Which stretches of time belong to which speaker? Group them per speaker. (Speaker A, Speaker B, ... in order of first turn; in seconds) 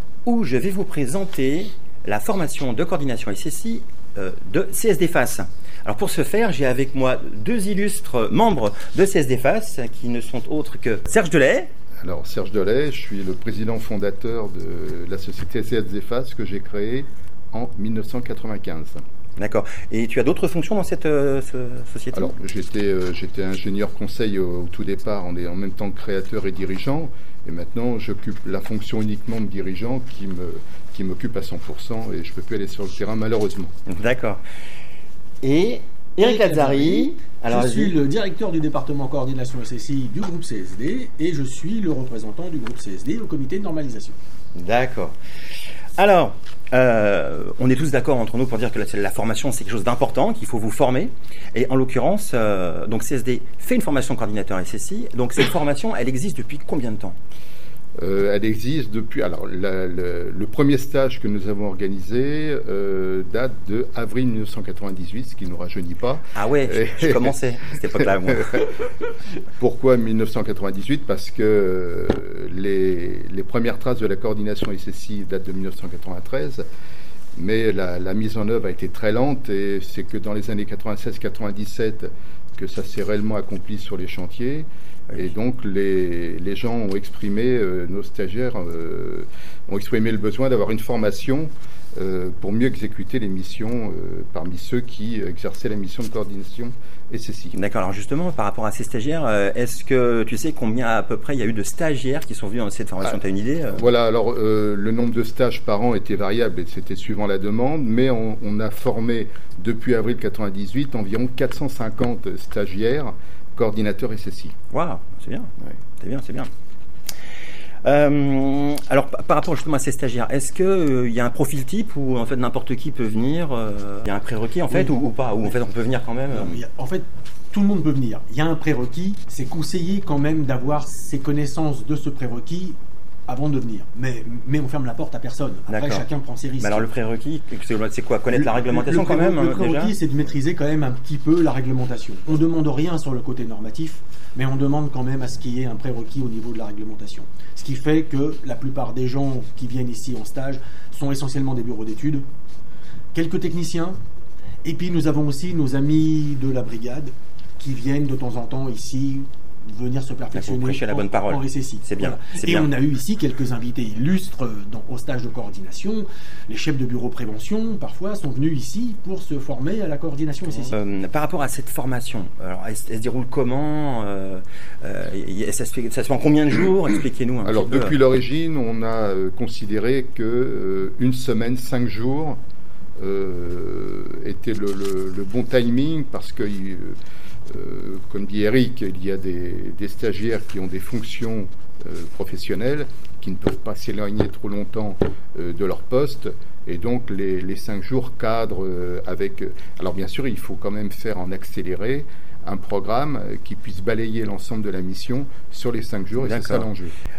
Speaker A: 0.2-11.7, 19.4-22.3, 33.9-34.4, 35.4-38.0, 44.5-45.1, 46.0-57.2, 66.3-68.6, 97.5-103.8, 114.7-116.5, 117.8-126.6, 135.7-136.0, 136.6-139.9, 160.3-162.7, 170.7-178.0, 206.2-206.7
Speaker B: 12.0-19.0, 22.1-33.7, 58.0-67.3, 68.0-68.7, 69.6-76.6, 77.3-97.5, 103.7-114.5, 177.4-182.4, 183.0-187.0, 187.5-206.9
Speaker C: 36.2-44.1, 126.3-136.9, 138.3-152.2, 153.1-154.0, 154.6-170.8